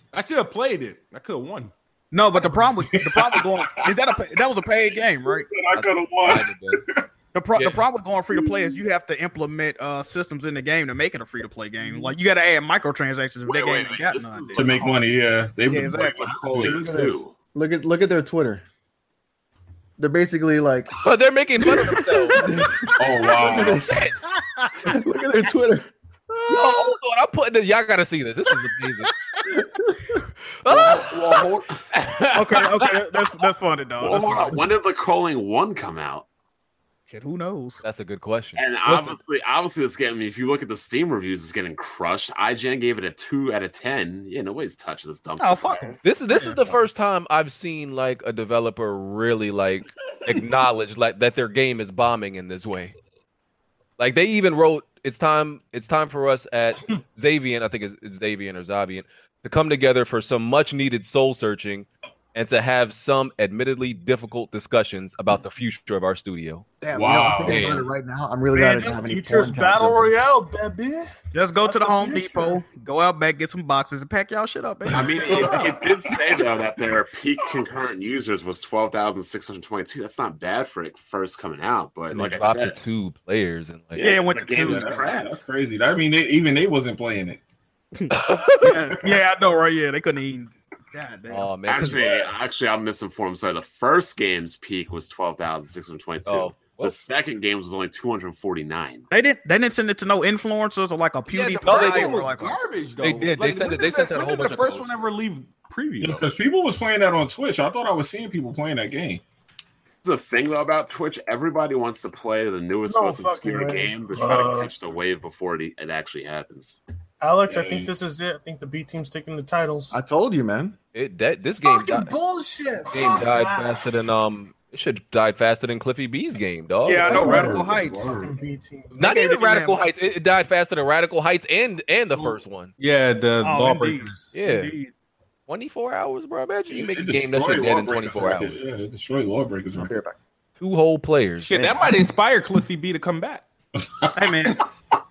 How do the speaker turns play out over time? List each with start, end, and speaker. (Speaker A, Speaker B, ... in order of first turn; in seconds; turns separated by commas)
Speaker A: 0.1-1.7, Speaker B: 2.1-5.5, Speaker C: 2.8-4.0, Speaker C: 5.2-7.0, Speaker D: 5.7-6.8, Speaker B: 7.3-14.9, Speaker D: 7.5-7.8, Speaker C: 8.3-8.8, Speaker E: 13.4-15.0, Speaker C: 14.5-17.1, Speaker B: 15.7-16.3, Speaker E: 15.7-17.3, Speaker F: 16.5-18.6, Speaker F: 20.0-20.9, Speaker D: 20.9-22.5, Speaker F: 21.7-24.1, Speaker C: 22.9-23.9, Speaker D: 23.7-24.1, Speaker F: 24.8-25.9, Speaker D: 26.5-29.1, Speaker D: 30.6-31.4, Speaker E: 30.9-31.8, Speaker B: 32.3-34.6, Speaker E: 34.0-36.2, Speaker B: 37.1-37.8, Speaker D: 37.8-39.2, Speaker E: 38.6-46.0, Speaker B: 45.4-46.0, Speaker D: 46.0-52.9, Speaker D: 54.0-66.7, Speaker F: 66.8-70.1, Speaker C: 66.9-67.8, Speaker D: 67.4-67.9, Speaker G: 68.5-71.1, Speaker B: 71.3-75.8, Speaker G: 71.6-72.6, Speaker E: 74.9-82.8, Speaker C: 75.3-75.8, Speaker D: 82.1-84.1, Speaker E: 84.0-85.3, Speaker B: 84.0-85.1, Speaker C: 84.6-87.4, Speaker B: 88.0-91.5, Speaker D: 88.1-88.7, Speaker D: 91.3-92.2, Speaker E: 91.7-99.0, Speaker D: 96.2-96.9, Speaker B: 99.1-102.6, Speaker A: 101.3-106.3, Speaker D: 101.6-102.2, Speaker D: 103.0-105.0, Speaker C: 106.0-109.2, Speaker E: 110.0-116.8, Speaker G: 112.8-114.7, Speaker G: 117.2-120.0, Speaker C: 117.5-117.9, Speaker F: 119.9-120.8, Speaker D: 120.9-122.1, Speaker G: 121.6-123.8, Speaker D: 122.9-127.4, Speaker B: 126.8-128.3, Speaker C: 127.1-128.3, Speaker G: 127.1-127.6, Speaker G: 128.1-129.0, Speaker D: 128.9-132.7, Speaker B: 129.0-129.8, Speaker A: 132.8-134.3, Speaker B: 133.4-134.9, Speaker D: 134.3-134.7, Speaker D: 135.5-138.6, Speaker C: 136.7-139.9, Speaker F: 139.8-140.2, Speaker D: 140.6-142.0, Speaker A: 141.4-143.4, Speaker C: 143.8-144.6, Speaker B: 144.1-144.6